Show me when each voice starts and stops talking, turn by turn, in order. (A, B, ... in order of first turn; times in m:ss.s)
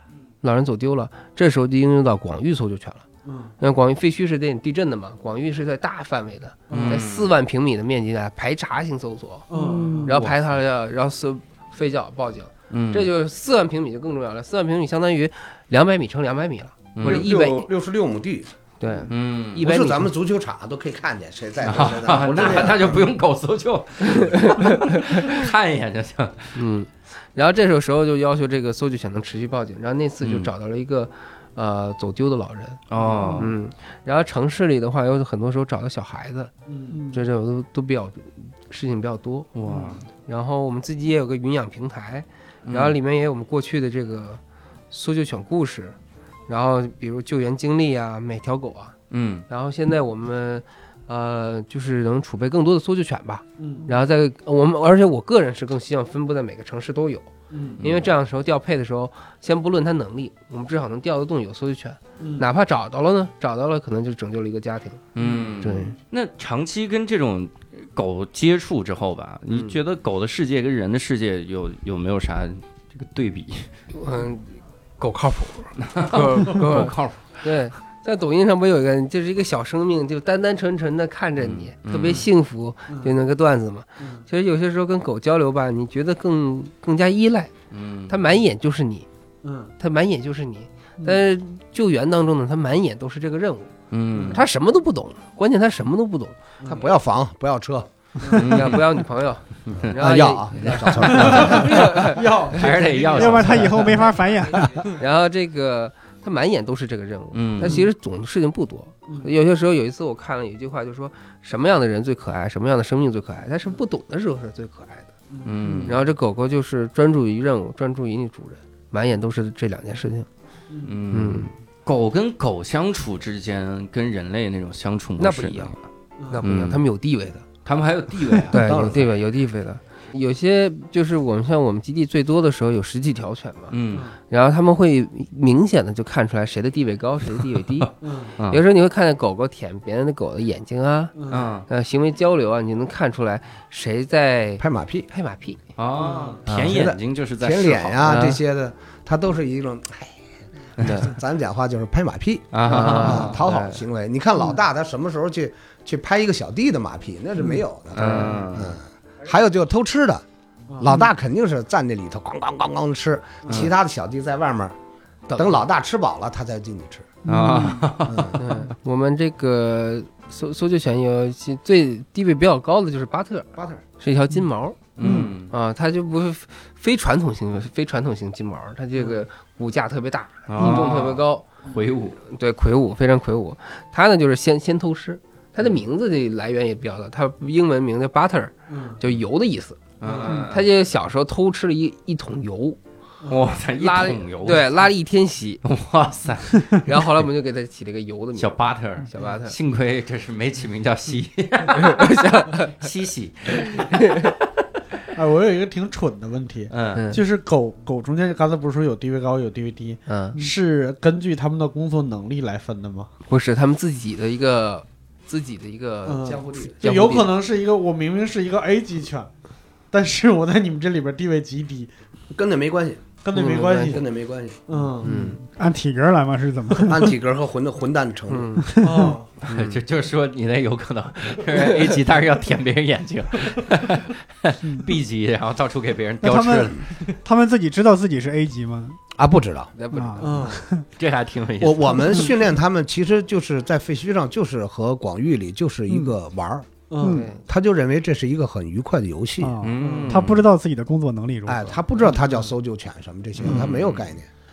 0:00.4-0:03.0 A
0:03.2-0:03.5 B
0:03.6-0:09.5 A
0:06.7-0:07.0 B
0:06.7-0:07.3 C
0:09.5-0:10.2 B
0:09.5-0:10.2 D
0:10.0-0:17.7 A
0:10.1-0:10.4 C
0:12.7-0:13.1 C
0:17.0-0:17.3 C
0:17.0-0:18.5 E
0:18.8-0:20.1 A
0:19.1-0:19.6 C
0:19.6-0:23.1 E
0:21.6-0:26.6 C
0:22.4-0:22.7 A
0:24.1-0:25.3 A
0:26.6-0:32.8 A
0:30.2-0:30.5 C
0:32.9-0:33.5 C
0:33.4-0:36.5 A
0:36.7-0:37.0 B
0:36.9-0:37.2 D
0:37.1-0:39.5 A
0:39.6-0:40.1 C
0:40.1-0:44.4 A
0:42.7-0:43.0 C
0:44.9-0:46.0 A
0:46.5-0:49.0 A
0:49.1-0:49.5 C
0:49.5-1:05.0 A
0:53.6-0:53.9 B
0:57.5-0:57.8 B
0:57.8-0:58.1 C
1:02.2-1:02.5 B
1:05.2-1:13.7 C
1:05.2-1:05.5 B
1:05.6-1:06.0 A
1:09.5-1:09.8 A
1:13.9-1:27.5 A
1:15.8-1:17.3 C
1:21.4-1:22.3 C
1:22.9-1:23.1 B
1:24.0-1:24.2 B
1:27.7-1:28.2 C
1:28.1-1:29.1 A
1:29.4-1:29.7 B
1:29.8-1:33.7 A
1:33.9-1:34.4 C
1:34.1-1:34.4 B
1:34.2-1:36.4 A
1:36.6-1:36.9 B
1:36.7-1:37.9 E
1:38.2-1:38.6 B
1:38.3-1:39.0 C
1:38.4-1:43.1 A
1:39.7-1:40.0 C
1:39.9-1:41.9 E
1:40.5-1:44.0 C
1:41.0-1:44.9 B
1:43.1-1:44.9 D
1:44.8-1:55.1 A
1:47.3-1:47.8 C
1:55.3-1:55.9 B
1:55.4-1:56.1 C
1:55.8-2:00.3 A
2:00.7-2:01.0 B
2:00.8-2:05.8 C
2:01.1-2:01.5 A
2:05.2-2:05.8 A
2:06.2-2:06.4 B
2:06.3-2:07.5 A
2:06.4-2:06.8 C
2:07.6-2:09.0 C
2:08.4-2:13.8 A
2:08.5-2:09.1 E
2:13.7-2:14.1 C
2:14.3-2:25.6 A
2:18.0-2:18.3 B
2:18.4-2:18.6 C
2:21.2-2:21.5 B
2:21.3-2:21.7 C
2:24.6-2:25.1 E
2:25.8-2:28.2 C
2:26.0-2:26.4 B
2:26.5-2:26.8 A
2:26.6-2:30.2 E
2:28.0-2:28.4 A
2:30.8-2:40.2 E
2:30.8-2:31.1 A
2:32.5-2:33.4 C
2:32.6-2:33.8 A
2:37.9-2:38.8 C
2:38.0-2:38.4 A
2:40.7-2:40.9 B
2:40.8-2:44.8 E
2:45.3-2:45.6 A
2:45.4-2:47.2 E
2:47.2-2:48.0 D
2:47.3-2:48.7 C
2:48.1-2:48.4 E
2:48.4-2:54.9 A
2:53.6-2:53.8 E
2:55.0-2:55.5 C
2:55.0-2:55.4 D
2:55.4-3:01.5 A
3:00.5-3:02.2 C
3:02.2-3:12.8 A
3:08.7-3:09.0 B
3:10.0-3:10.7 C
3:10.0-3:10.3 B
3:13.3-3:14.8 C
3:13.8-3:15.6 A
3:15.6-3:17.1 C
3:16.6-3:19.6 A
3:18.4-3:24.3 C
3:21.7-3:22.8 A
3:23.6-3:24.3 A
3:25.1-3:33.1 B
3:26.7-3:27.1 C
3:27.0-3:27.2 A
3:30.1-3:30.4 A
3:33.3-3:37.3 A
3:36.0-3:39.3 B
3:36.2-3:37.1 E
3:39.9-3:41.9 B
3:42.3-3:43.1 E
3:43.2-3:44.0 B
3:43.3-3:44.0 A
3:43.8-3:44.9 E
3:44.7-3:45.1 B
3:45.0-3:45.4 A
3:45.4-3:47.1 D
3:46.9-3:48.7 E
3:48.3-3:48.8 A
3:48.7-3:49.2 D
3:48.8-3:49.3 B
3:49.4-3:56.8 C
3:49.5-3:49.8 A
3:54.6-3:54.9 D
3:56.2-3:59.0 D
3:59.1-3:59.7 E
3:59.8-4:00.6 A
3:59.9-4:00.9 D
4:00.2-4:00.7 B
4:01.0-4:02.2 C
4:01.6-4:06.7 E
4:06.9-4:07.2 B
4:07.0-4:07.3 D
4:07.0-4:07.4 A
4:07.5-4:09.6 E
4:09.4-4:11.8 D
4:09.6-4:10.5 C
4:09.8-4:10.2 B
4:11.5-4:14.3 E
4:12.1-4:12.4 B
4:13.4-4:14.1 C